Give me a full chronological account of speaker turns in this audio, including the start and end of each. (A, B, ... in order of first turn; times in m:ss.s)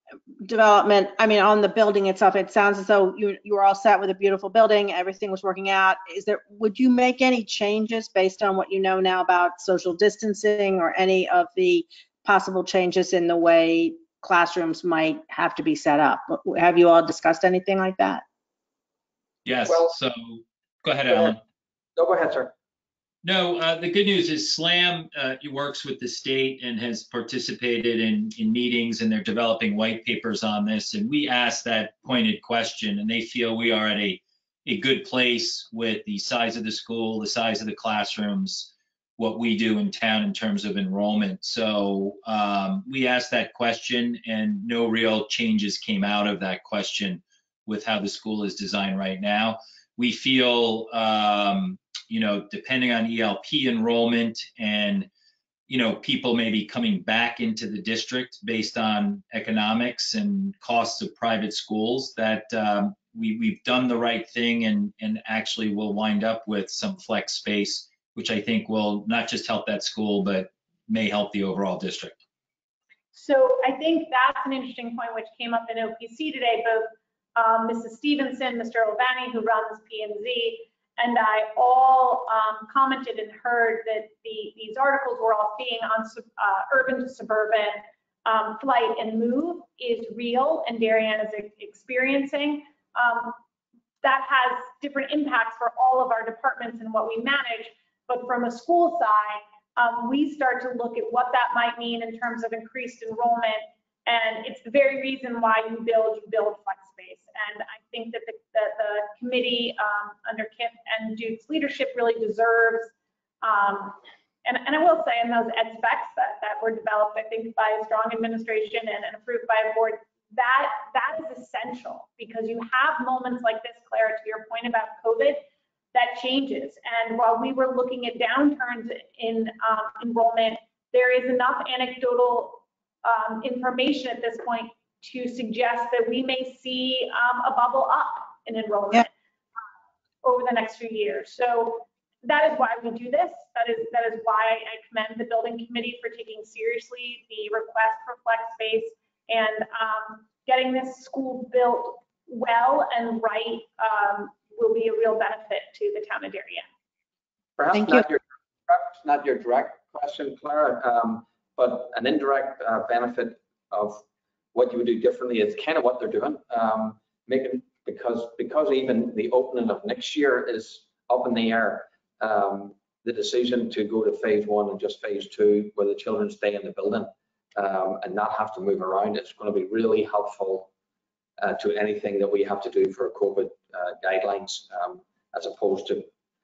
0:00.4-0:18.2 A
0:19.4-0:21.4 B
0:19.7-0:19.9 C
0:22.0-0:22.5 C
0:23.2-0:55.1 B
0:55.7-1:12.2 B
1:13.1-1:33.4 D
1:34.0-1:52.9 D
1:53.4-2:19.1 D
2:20.2-2:36.7 D
2:37.6-2:44.0 C
2:37.7-2:38.0 A
2:44.5-3:00.7 C
3:01.4-3:06.1 C